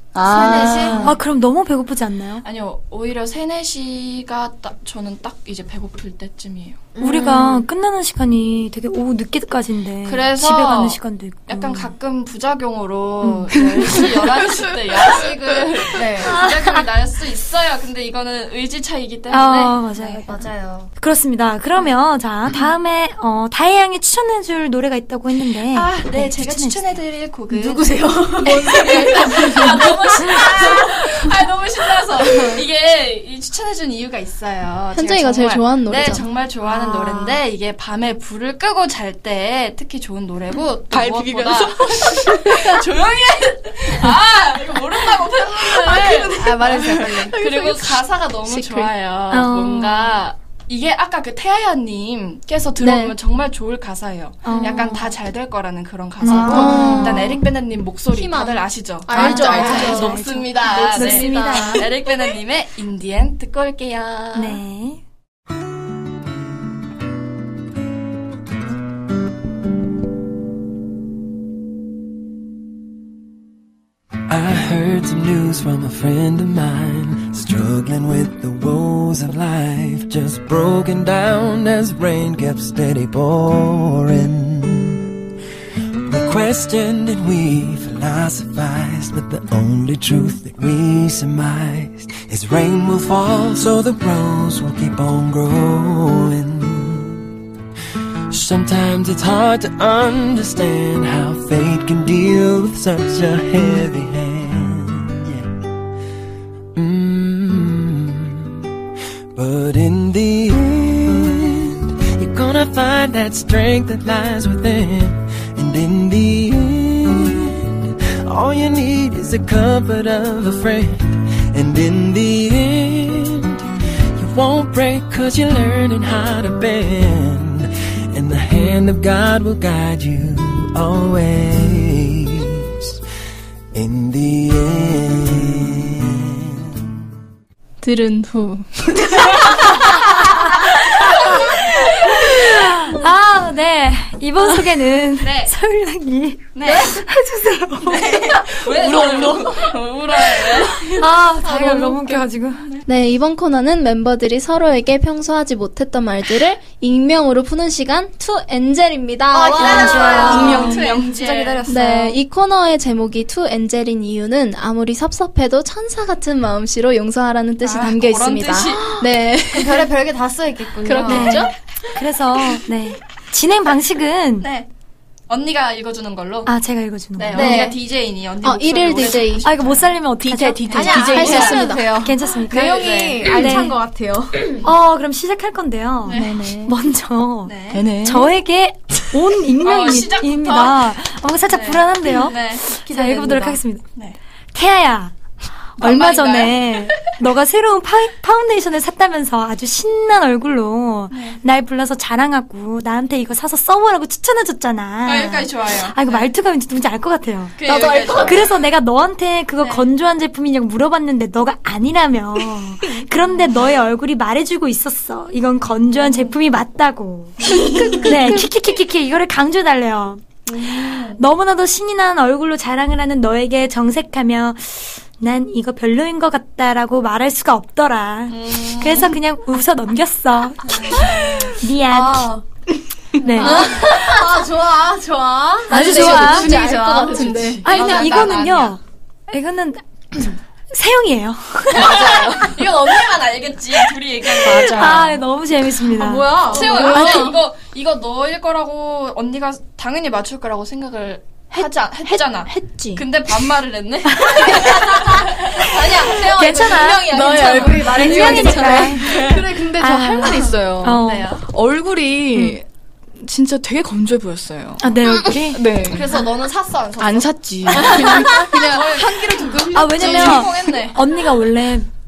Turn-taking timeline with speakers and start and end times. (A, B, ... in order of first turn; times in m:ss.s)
0:00.1-0:01.2 A
0:00.2-0:01.1 B
0:01.0-0:02.4 C
0:02.4-0:06.8 D
0:06.9-0:07.6 B
0:07.0-0:11.9 C
0:10.0-0:20.2 D
0:13.5-0:14.1 C
0:15.9-0:16.4 B
0:16.2-0:16.9 C
0:19.3-0:20.4 C
0:20.3-0:20.9 B
0:20.9-0:27.0 C
0:25.7-1:04.6 D
0:27.5-0:31.4 B
0:28.4-0:29.8 E
0:32.0-0:32.6 B
0:34.9-0:36.2 E
0:36.6-0:37.3 C
0:40.9-0:41.8 A
0:41.0-0:42.3 B
0:45.1-0:47.9 B
0:48.4-0:48.9 E
0:49.3-0:50.2 C
0:52.8-0:53.1 E
0:54.4-0:55.0 C
0:56.2-0:57.1 C
0:56.3-0:57.4 E
0:56.3-0:57.1 B
0:58.1-1:01.8 E
0:59.2-1:01.8 C
0:59.3-1:00.0 A
0:59.5-1:00.1 B
1:00.7-1:01.8 B
1:04.3-1:05.0 C
1:14.3-1:25.1 F
1:26.0-1:37.3 F
1:38.3-1:45.5 F
1:46.7-1:48.6 F
1:49.3-2:12.7 F
2:13.7-2:16.5 F
2:17.8-2:20.2 E
2:20.1-2:29.5 C
2:25.2-2:25.5 D
2:26.5-2:27.0 D
2:27.8-2:32.8 D
2:30.8-2:32.7 C
2:31.5-2:32.0 E
2:32.9-2:40.9 E
2:39.3-2:42.2 B
2:39.5-2:42.1 D
2:39.9-2:40.7 C
2:41.7-2:49.9 E
2:47.6-2:48.9 D
2:48.8-2:51.5 B
2:50.8-2:51.5 E
2:51.0-2:54.5 C
2:54.4-2:54.7 D
2:55.3-2:56.5 D
2:56.4-2:57.6 C
2:57.2-2:59.9 D
2:57.3-2:57.7 B
2:57.4-2:57.7 E
2:58.4-2:59.5 E
2:59.4-3:03.8 C
3:00.4-3:04.6 B
3:00.7-3:01.7 D
3:00.9-3:01.9 E
3:02.5-3:03.4 D
3:04.6-3:13.8 C
3:06.1-3:06.5 D
3:06.1-3:06.7 A
3:07.4-3:07.8 D
3:07.7-3:08.3 A
3:09.6-3:10.9 D
3:11.5-3:14.2 D
3:12.9-3:13.5 B
3:14.5-3:15.1 C
3:15.8-3:27.6 C
3:15.8-3:17.1 D
3:21.1-3:21.4 D
3:25.0-3:26.3 D
3:27.6-3:28.6 D
3:27.6-3:28.3 B
3:27.7-3:28.2 E
3:28.1-3:40.3 C
3:29.6-3:29.8 D
3:35.6-3:36.4 D
3:37.4-3:38.1 D
3:37.5-3:38.4 B
3:37.6-3:38.1 E
3:40.5-3:41.2 D
3:40.6-3:41.0 B
3:40.8-3:52.4 C
3:48.3-3:49.1 D
3:50.7-3:51.5 D
3:51.9-3:52.4 B
3:53.1-3:58.4 B
3:53.2-3:53.6 C
3:53.4-3:54.0 E
3:55.7-3:56.5 C
3:55.7-3:57.9 E
3:57.2-3:58.8 D
3:57.6-4:02.1 C
4:01.7-4:05.2 D
4:01.8-4:02.5 B
4:04.4-4:07.3 C
4:05.9-4:07.3 B
4:06.4-4:17.9 D
4:06.5-4:07.4 E
4:12.1-4:12.7 C
4:12.7-4:13.0 A
4:14.2-4:15.0 C
4:15.9-4:20.5 B
4:16.0-4:21.3 C
4:17.1-4:19.2 E
4:18.9-4:19.6 D
4:19.3-4:22.6 A
4:20.9-4:21.4 D
4:23.2-4:26.1 A
4:24.8-4:25.6 C
4:25.8-4:31.0 D
4:27.0-4:29.8 A
4:28.0-4:28.4 B
4:28.4-4:28.8 E
4:29.7-4:31.9 C